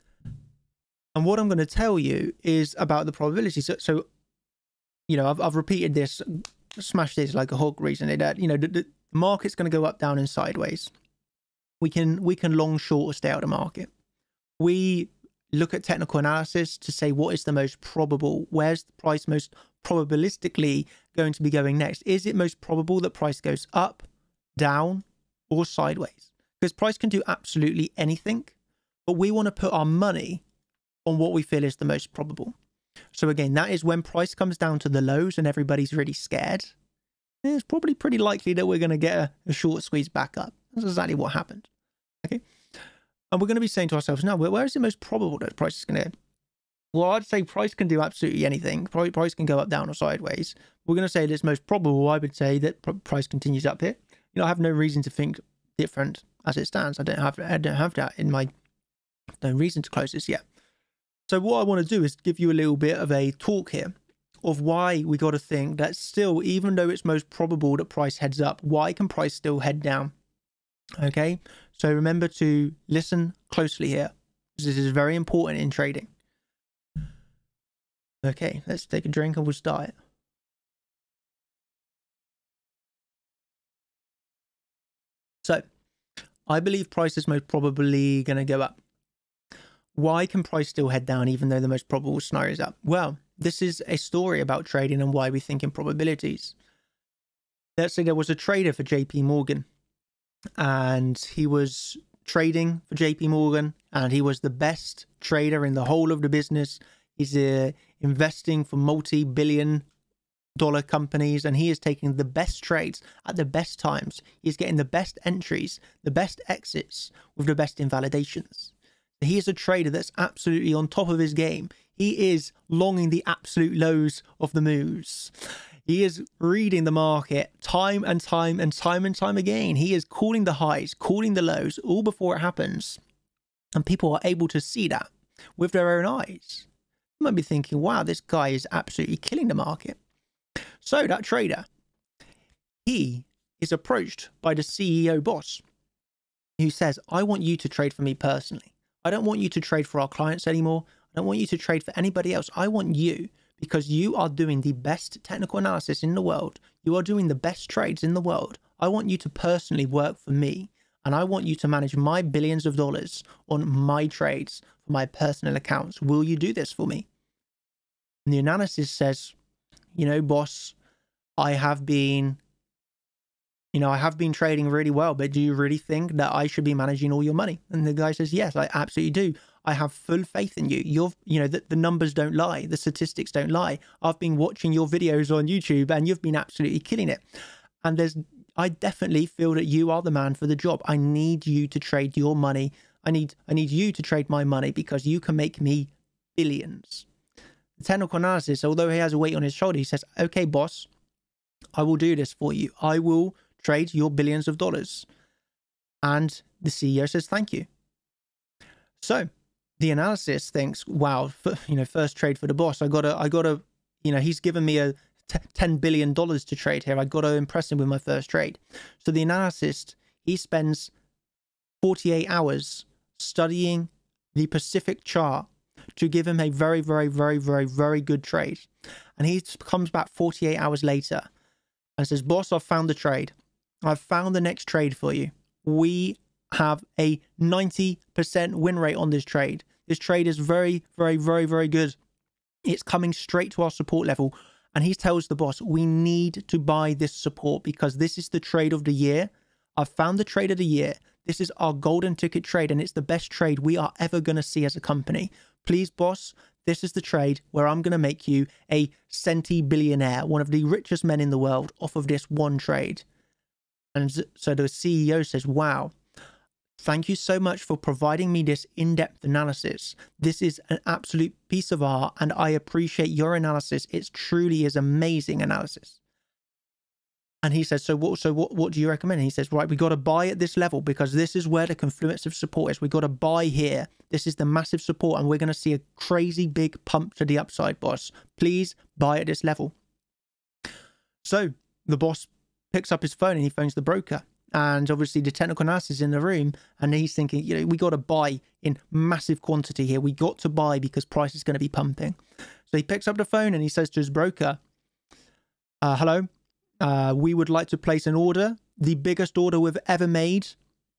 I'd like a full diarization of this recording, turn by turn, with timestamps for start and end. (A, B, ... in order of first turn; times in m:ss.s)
0:01.1-0:04.0 A
0:05.1-0:10.9 A
0:11.8-0:13.9 A
0:14.6-0:28.5 A
0:29.0-0:30.4 A
0:31.0-0:32.5 A
0:33.1-0:36.7 A
0:37.4-0:41.7 A
0:43.3-0:46.1 A
0:46.9-0:58.5 A
0:59.4-1:00.4 A
1:01.3-1:10.1 A
1:11.0-1:16.1 A
1:18.2-1:19.9 A
1:26.5-1:28.8 A
1:29.9-1:36.5 A
1:37.8-1:39.6 A
1:40.6-1:49.8 A
1:50.6-2:05.3 A
2:05.8-2:13.0 A
2:13.7-2:16.7 A
2:17.2-2:20.0 A
2:20.8-2:21.6 A
2:22.8-2:25.6 A
2:26.6-2:47.1 A
2:48.2-2:49.3 A
2:49.9-2:50.8 A
2:51.4-2:52.4 A
2:53.7-3:07.2 A
3:07.8-3:17.1 A
3:17.8-3:20.9 A
3:21.7-3:25.1 A
3:26.0-3:27.7 A
3:29.0-3:40.9 A
3:41.8-3:51.3 A
3:52.0-4:02.0 A
4:02.6-4:23.0 A
4:23.9-4:25.9 A
4:26.8-4:36.0 A
4:37.4-4:49.7 A
4:51.2-5:02.2 A
5:02.7-5:04.6 A
5:05.8-5:06.3 A
5:06.8-5:10.6 A